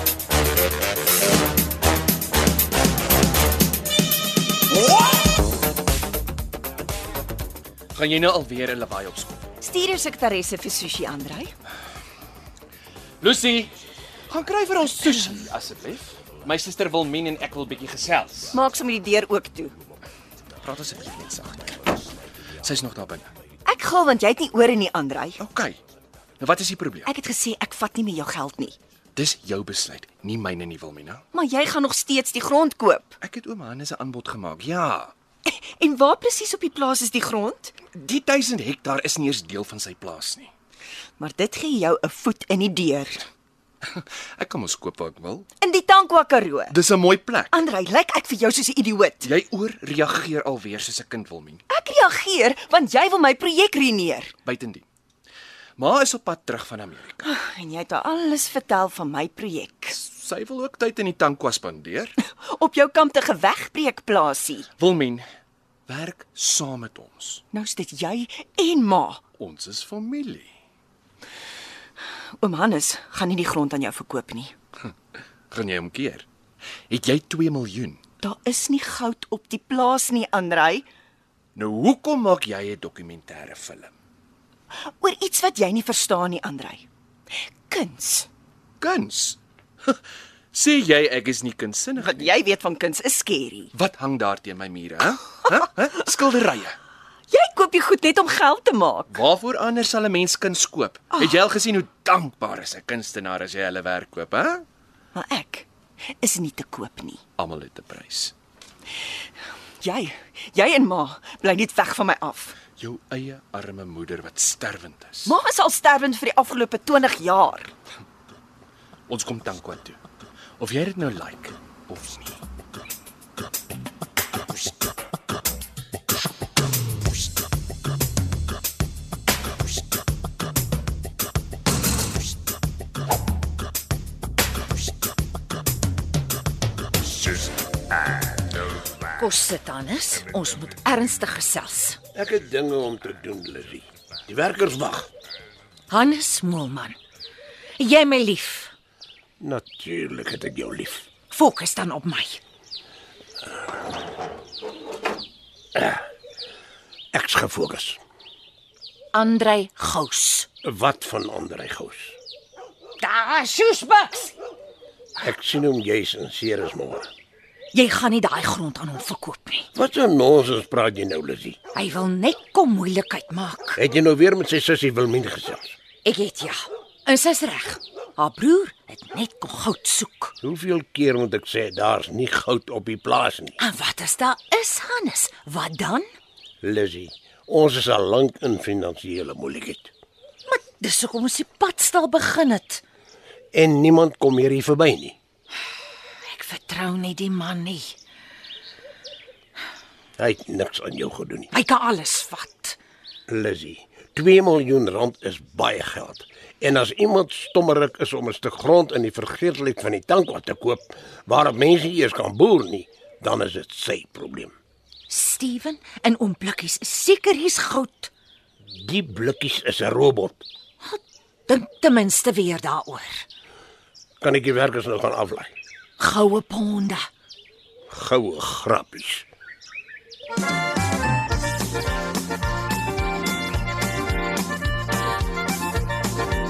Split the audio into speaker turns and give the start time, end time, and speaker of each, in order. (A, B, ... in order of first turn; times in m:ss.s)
0:07.9-0:09.4 A
0:09.6-0:11.5 B
0:13.2-0:13.7 A
0:14.3-0:18.6 A
0:18.5-0:19.7 B
0:20.6-0:22.0 A
0:22.6-0:23.3 A
0:23.6-0:25.4 B
0:25.4-0:25.8 A
0:26.4-0:27.1 A
0:27.0-0:28.7 B
0:29.2-0:31.2 A
0:31.3-0:33.2 B
0:33.2-0:35.1 A
0:35.4-0:37.8 B
0:37.9-0:40.5 A
0:41.2-0:43.2 B
0:43.8-0:45.5 A
0:45.6-0:46.8 B
0:46.7-0:47.6 A
0:47.5-0:49.3 B
0:49.2-0:51.6 A
0:51.7-0:54.3 B
0:54.4-0:54.8 A
0:55.8-0:57.3 A
0:57.2-1:00.0 B
0:59.9-1:02.1 A
1:02.4-1:04.7 B
1:04.8-1:05.2 A
1:05.9-1:07.4 A
1:07.5-1:09.2 B
1:09.4-1:10.5 A
1:12.4-1:14.5 B
1:15.5-1:16.2 A
1:16.9-1:18.0 A
1:18.2-1:20.9 B
1:21.5-1:23.9 A
1:25.0-1:26.8 B
1:27.7-1:28.3 B
1:28.8-1:30.0 A
1:30.5-1:32.3 A
1:32.0-1:33.7 B
1:33.7-1:36.8 A
1:37.3-1:39.2 B
1:39.1-1:44.6 A
1:45.1-1:45.7 B
1:46.2-1:47.2 B
1:47.4-1:48.3 A
1:49.8-1:52.6 B
1:52.8-1:55.3 A
1:55.2-1:57.7 B
1:59.1-2:00.0 A
2:00.6-2:02.4 A
2:19.1-2:22.0 C
2:22.1-2:25.1 D
2:25.9-2:27.0 C
2:27.8-2:28.7 C
2:29.4-2:31.1 D
2:31.3-2:32.4 C
2:37.1-2:38.0 D
2:39.1-2:40.5 C
2:40.6-2:42.2 D
2:43.0-2:44.3 C
2:45.2-2:47.1 D
2:47.7-2:49.7 C
2:49.7-2:51.6 D
2:51.7-2:53.8 C
2:53.8-2:55.8 D
2:56.0-3:00.3 C
3:00.4-3:03.6 D
3:03.6-3:06.1 C
3:06.6-3:09.9 D
3:10.5-3:12.8 C
3:13.5-3:15.2 D
3:16.2-3:17.9 C
3:20.2-3:21.5 D
3:21.5-3:22.8 C
3:23.3-3:34.5 D
3:35.1-3:38.1 C
3:38.7-3:40.4 D
3:40.8-3:43.2 C
3:44.2-3:45.5 D
3:46.0-3:47.1 C
3:47.9-3:49.2 D